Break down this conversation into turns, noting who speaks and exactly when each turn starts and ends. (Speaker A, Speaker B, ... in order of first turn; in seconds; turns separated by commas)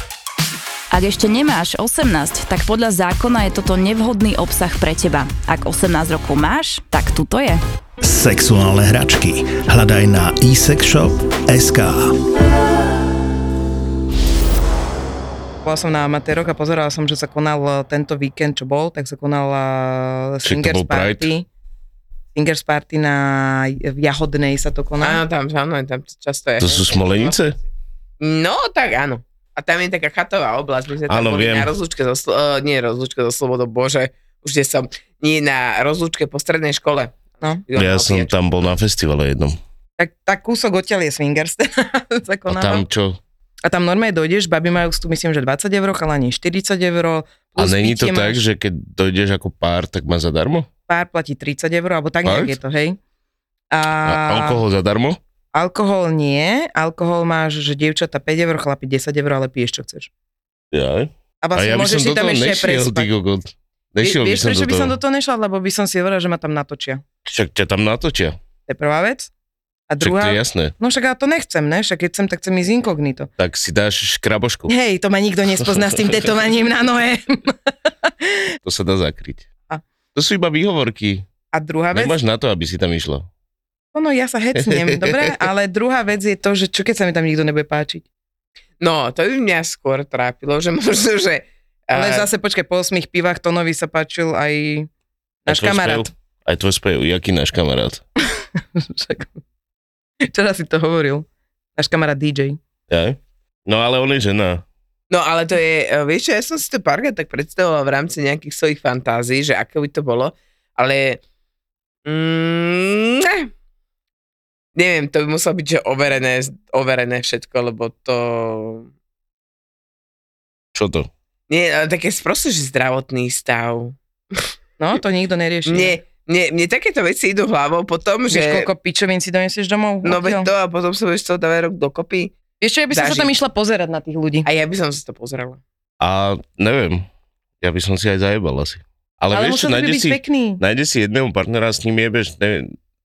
Speaker A: 0.9-7.6, Speaker B: 8.0-12.2, Speaker C: 15.6-21.4, Speaker D: 20.4-21.3, Speaker C: 22.3-25.2, Speaker E: 25.0-27.3, Speaker D: 26.6-27.6, Speaker E: 28.2-38.3, Speaker D: 31.1-31.7, Speaker D: 37.8-39.6, Speaker C: 40.0-42.8, Speaker D: 42.5-43.2, Speaker C: 43.6-48.4, Speaker D: 47.6-50.7, Speaker C: 50.9-53.0, Speaker D: 52.2-52.6, Speaker C: 53.7-54.6, Speaker D: 54.0-55.2, Speaker C: 55.5-60.1, Speaker D: 60.7-65.0, Speaker C: 61.4-63.1, Speaker C: 64.0-67.0, Speaker D: 67.2-68.4, Speaker C: 68.7-69.3, Speaker C: 69.9-73.3, Speaker D: 70.0-70.7, Speaker D: 73.4-74.7, Speaker C: 74.7-77.5, Speaker D: 75.7-76.1, Speaker C: 78.1-78.5, Speaker D: 78.6-79.5, Speaker D: 80.1-81.2, Speaker C: 81.5-82.2, Speaker D: 81.9-83.3, Speaker C: 83.9-88.0, Speaker D: 84.5-85.4, Speaker E: 88.8-92.3, Speaker C: 91.9-94.9, Speaker C: 95.5-96.1, Speaker D: 95.5-98.0, Speaker C: 98.8-99.3, Speaker C: 100.3-102.6, Speaker D: 102.9-104.6, Speaker E: 105.1-111.2, Speaker E: 112.0-113.5, Speaker E: 114.8-118.9, Speaker D: 120.7-121.1, Speaker E: 121.5-124.5, Speaker C: 124.8-126.0, Speaker E: 125.7-128.7, Speaker C: 128.3-130.5, Speaker E: 130.0-132.3, Speaker C: 132.6-134.5, Speaker E: 132.9-133.3, Speaker E: 134.4-135.6, Speaker D: 136.0-137.1, Speaker D: 137.6-142.7, Speaker C: 139.3-140.6